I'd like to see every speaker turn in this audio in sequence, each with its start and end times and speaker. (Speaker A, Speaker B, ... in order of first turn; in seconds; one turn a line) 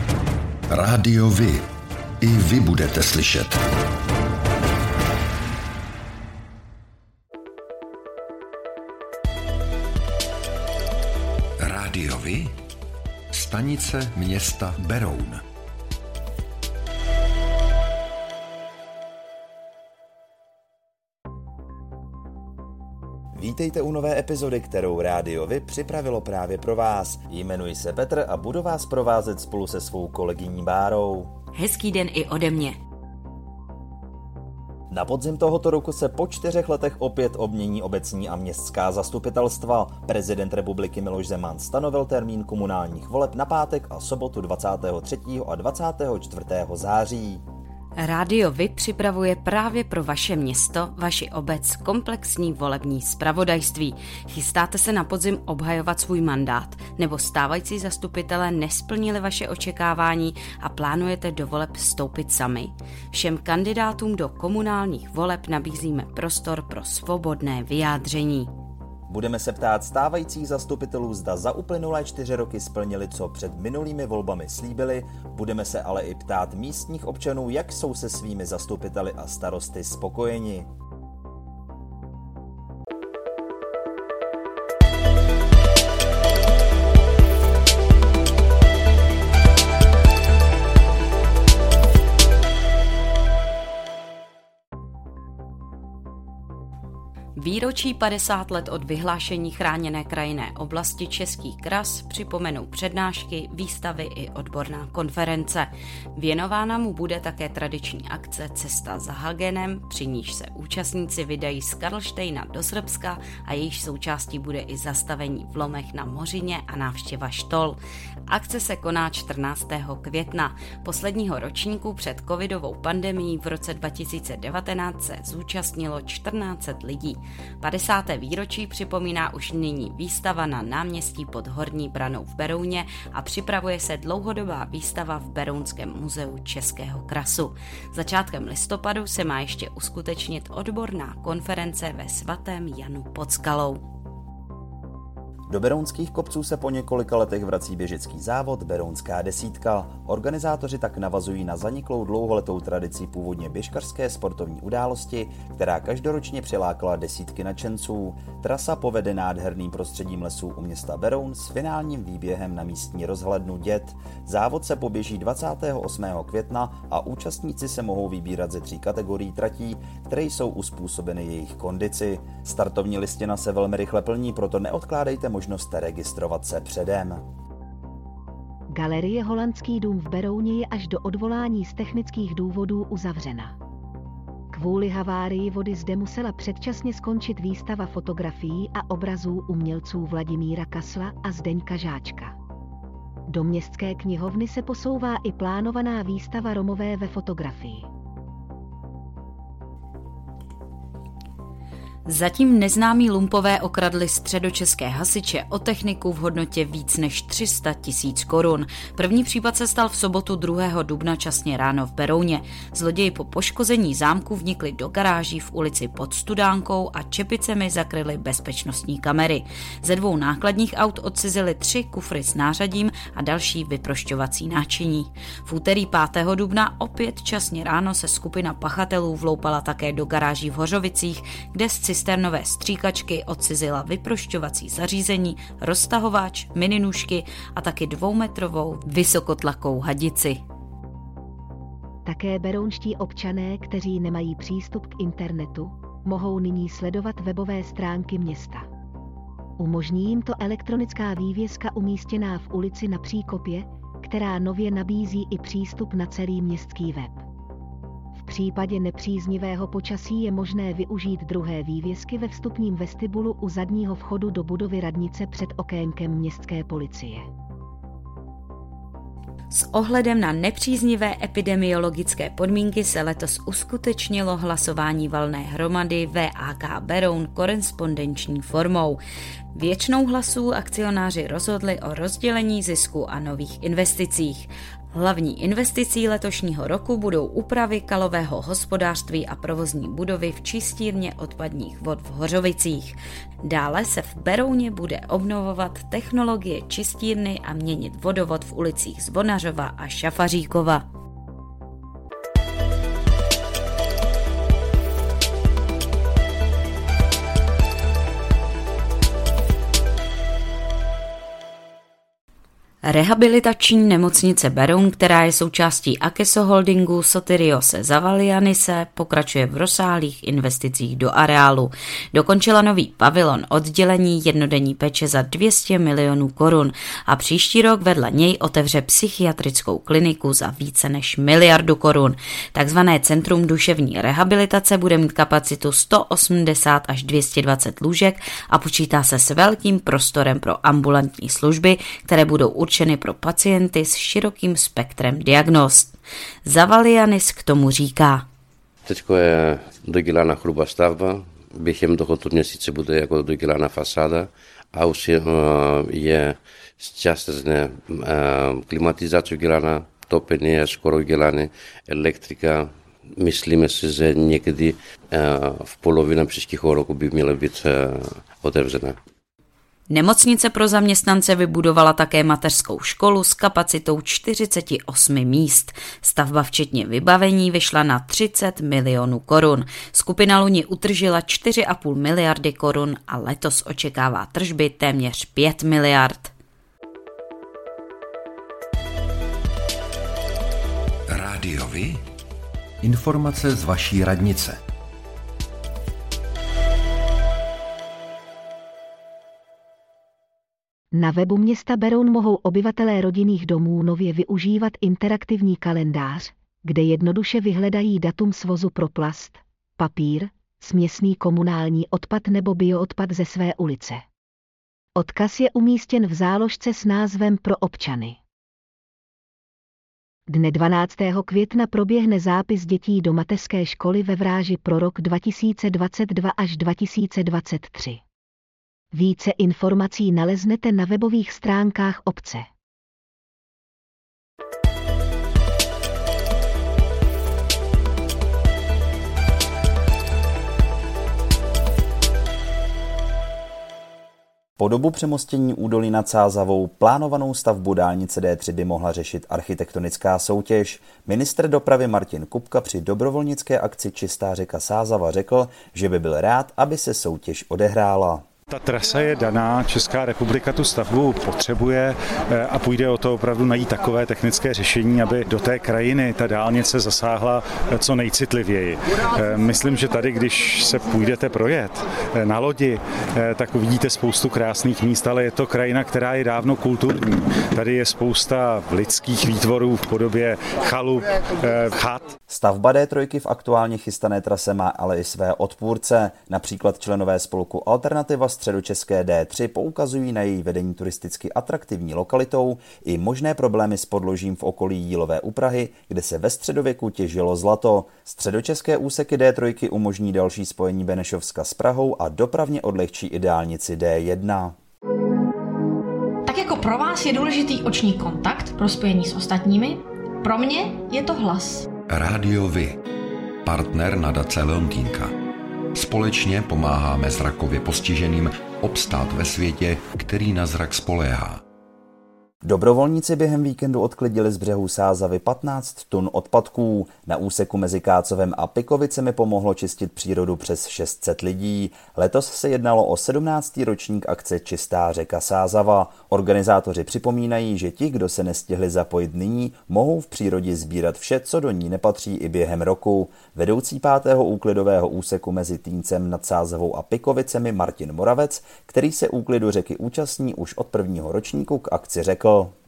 Speaker A: 0.7-3.6
Speaker A: 11.6-12.6
Speaker A: 13.3-15.4
Speaker B: 23.3-31.4
Speaker C: 31.5-32.7
Speaker B: 34.9-47.4
Speaker C: 48.0-68.5
Speaker B: 69.1-80.7
Speaker C: 97.3-143.8
Speaker B: 145.5-177.2
Speaker D: 178.7-183.5
Speaker D: 184.5-192.3
Speaker D: 193.3-197.9
Speaker C: 202.1-240.4
Speaker D: 242.0-248.7
Speaker D: 249.6-257.2
Speaker D: 258.1-267.2
Speaker C: 269.5-279.0
Speaker C: 279.5-300.8
Speaker C: 312.8-348.3
Speaker E: 348.9-369.0
Speaker C: 369.9-386.3
Speaker A: 391.1-392.0
Speaker A: 392.8-394.6
Speaker D: 400.9-414.0
Speaker D: 414.9-418.2
Speaker D: 420.3-428.0
Speaker D: 428.9-432.5
Speaker B: 444.6-458.2
Speaker F: 458.5-482.1
Speaker B: 482.3-504.6
Speaker G: 506.2-511.7
Speaker A: 511.9-512.8
Speaker A: 513.4-515.1
Speaker A: 515.7-521.4
Speaker B: 522.4-552.5